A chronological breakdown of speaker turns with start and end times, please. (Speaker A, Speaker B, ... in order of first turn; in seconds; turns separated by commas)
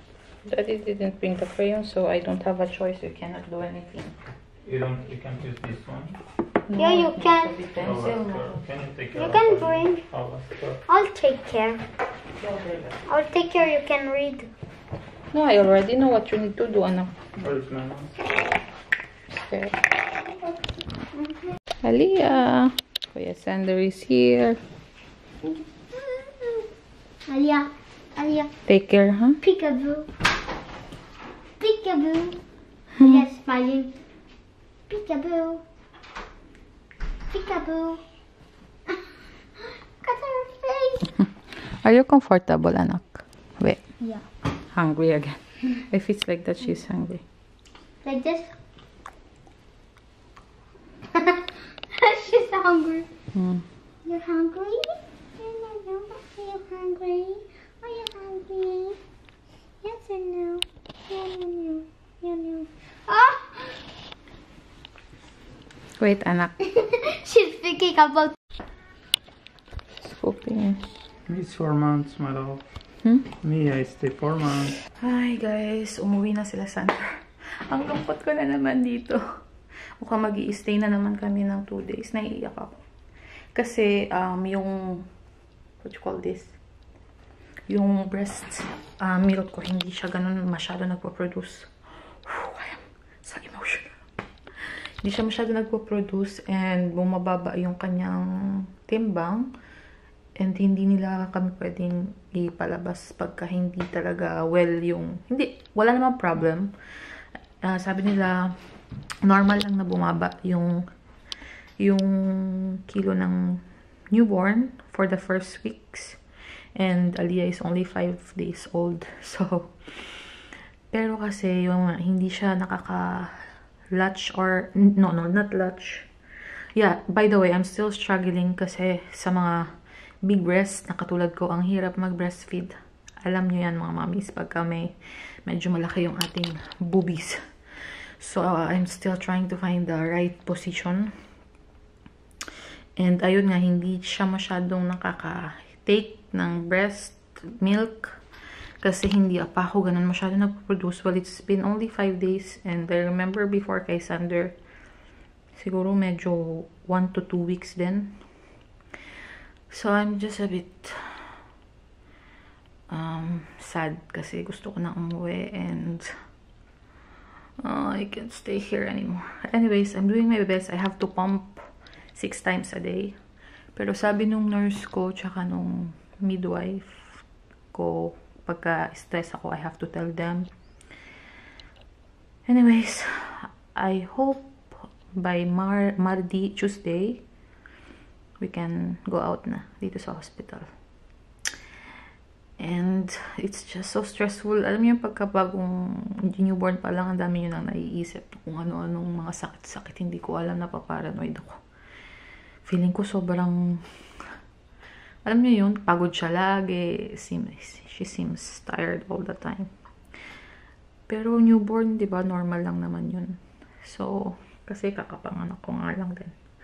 Speaker A: 0.5-4.2, Speaker B: 4.6-6.2, Speaker A: 6.7-8.6, Speaker C: 6.8-7.6, Speaker B: 7.8-10.8, Speaker C: 9.1-10.1, Speaker C: 10.9-11.8, Speaker B: 12.4-13.0, Speaker C: 13.1-14.5, Speaker A: 15.3-17.1, Speaker B: 17.4-18.2, Speaker A: 19.5-19.8, Speaker C: 21.1-21.6, Speaker A: 21.8-24.6, Speaker C: 25.4-26.6, Speaker C: 27.3-28.5, Speaker A: 28.7-29.4, Speaker C: 29.4-30.1, Speaker C: 31.6-32.4, Speaker A: 33.0-33.2, Speaker C: 33.0-34.0, Speaker C: 34.9-35.6, Speaker C: 37.3-38.0, Speaker C: 39.6-41.1, Speaker A: 41.6-43.8, Speaker A: 44.6-47.2, Speaker C: 48.0-48.5, Speaker C: 51.1-53.1, Speaker A: 53.3-53.7, Speaker C: 54.0-59.0, Speaker C: 59.8-63.8, Speaker A: 66.0-66.6, Speaker C: 66.7-68.4, Speaker A: 70.0-70.8, Speaker B: 71.3-72.6, Speaker A: 73.0-73.3, Speaker B: 73.4-74.8, Speaker A: 75.0-79.2, Speaker A: 80.0-82.8, Speaker A: 83.5-85.1, Speaker A: 85.8-86.6, Speaker A: 87.7-94.0, Speaker A: 95.0-99.5, Speaker A: 100.4-106.7, Speaker A: 107.6-108.5, Speaker A: 109.2-110.8, Speaker A: 111.8-116.2, Speaker A: 116.8-120.2, Speaker A: 120.9-123.3, Speaker A: 123.9-126.1, Speaker A: 126.8-129.5, Speaker A: 130.2-134.9, Speaker A: 135.5-137.4, Speaker A: 138.2-141.1, Speaker A: 143.0-148.2, Speaker A: 148.8-154.6, Speaker A: 155.6-158.2, Speaker A: 159.7-161.2, Speaker A: 162.9-166.1, Speaker A: 167.6-173.2, Speaker A: 173.8-180.5, Speaker A: 182.5-187.2, Speaker A: 188.4-190.7, Speaker A: 192.6-201.6, Speaker A: 202.7-203.8, Speaker A: 205.2-209.7, Speaker A: 211.1-216.4